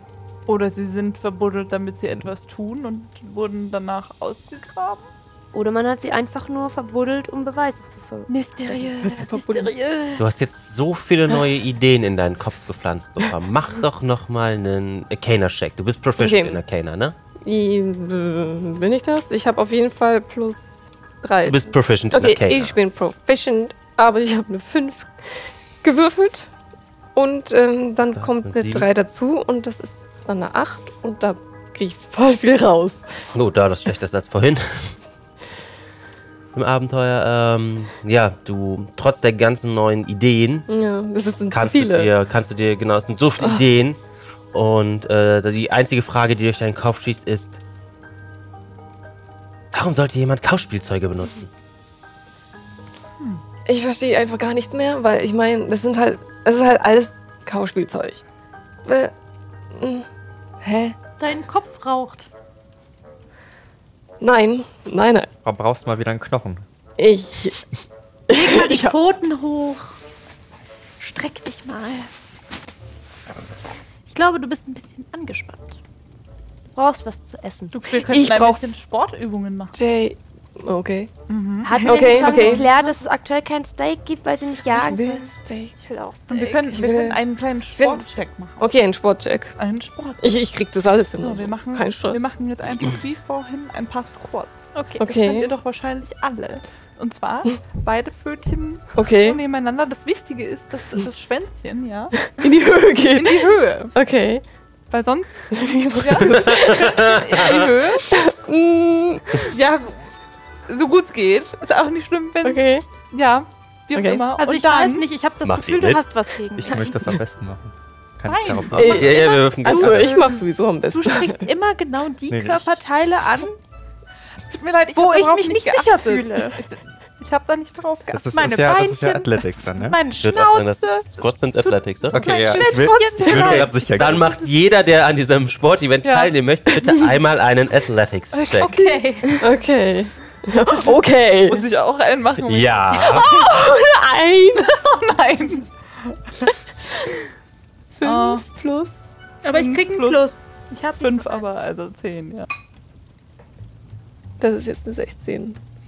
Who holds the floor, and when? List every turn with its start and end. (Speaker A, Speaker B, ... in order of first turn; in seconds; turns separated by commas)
Speaker A: 0.5-5.1, Speaker B: 5.5-8.8, Speaker C: 8.3-10.3, Speaker D: 9.0-9.7, Speaker E: 10.2-17.2, Speaker D: 16.2-16.6, Speaker D: 17.4-26.5, Speaker E: 21.5-22.8, Speaker D: 27.1-33.3, Speaker E: 28.1-28.9, Speaker E: 33.3-35.0, Speaker E: 36.5-40.7, Speaker D: 40.7-42.1, Speaker E: 41.5-44.0, Speaker E: 44.5-47.6, Speaker E: 49.7-51.5, Speaker D: 53.7-58.2, Speaker D: 58.9-59.1, Speaker D: 59.7-60.1, Speaker D: 60.6-61.0, Speaker C: 61.2-62.3, Speaker D: 64.2-65.3, Speaker F: 65.5-66.6, Speaker D: 67.0-67.7, Speaker D: 68.3-69.0, Speaker C: 68.3-70.0, Speaker C: 71.0-72.1, Speaker C: 74.1-75.8, Speaker B: 76.8-77.8, Speaker A: 77.7-79.8, Speaker D: 77.9-78.8, Speaker D: 79.7-81.1, Speaker A: 81.3-82.4, Speaker B: 81.6-85.3, Speaker D: 81.7-82.7, Speaker C: 82.0-82.9, Speaker D: 84.7-85.8, Speaker C: 85.8-86.8, Speaker A: 86.3-88.7, Speaker D: 86.7-87.2, Speaker D: 87.8-89.6, Speaker A: 89.6-90.4, Speaker D: 90.2-92.2, Speaker A: 91.2-102.4, Speaker C: 94.8-95.1, Speaker D: 95.0-95.5, Speaker D: 99.0-99.4, Speaker D: 102.3-104.4, Speaker A: 103.1-103.9, Speaker A: 104.9-108.2, Speaker D: 105.5-109.5, Speaker A: 109.4-110.1, Speaker A: 110.7-115.0, Speaker D: 112.4-112.8, Speaker D: 113.9-114.2, Speaker C: 114.4-117.2, Speaker E: 115.4-116.0, Speaker F: 116.6-119.2, Speaker A: 118.3-118.7, Speaker C: 118.7-123.6, Speaker E: 118.7-120.2, Speaker D: 118.8-121.4, Speaker F: 122.3-122.8, Speaker A: 124.5-128.3, Speaker C: 124.9-126.6, Speaker F: 128.1-130.0, Speaker C: 128.3-131.1, Speaker E: 130.2-132.3, Speaker C: 132.1-134.0, Speaker F: 132.1-134.3, Speaker A: 132.2-133.7, Speaker E: 133.3-138.7, Speaker A: 136.0-136.3, Speaker A: 138.3-138.9, Speaker C: 138.6-139.4, Speaker D: 139.4-141.7, Speaker A: 141.5-143.6, Speaker E: 142.5-143.3, Speaker D: 142.9-144.9, Speaker A: 144.6-146.6, Speaker D: 147.9-149.0, Speaker A: 148.0-148.4, Speaker C: 149.4-151.6, Speaker A: 149.5-150.3, Speaker A: 151.0-152.5, Speaker D: 154.4-155.6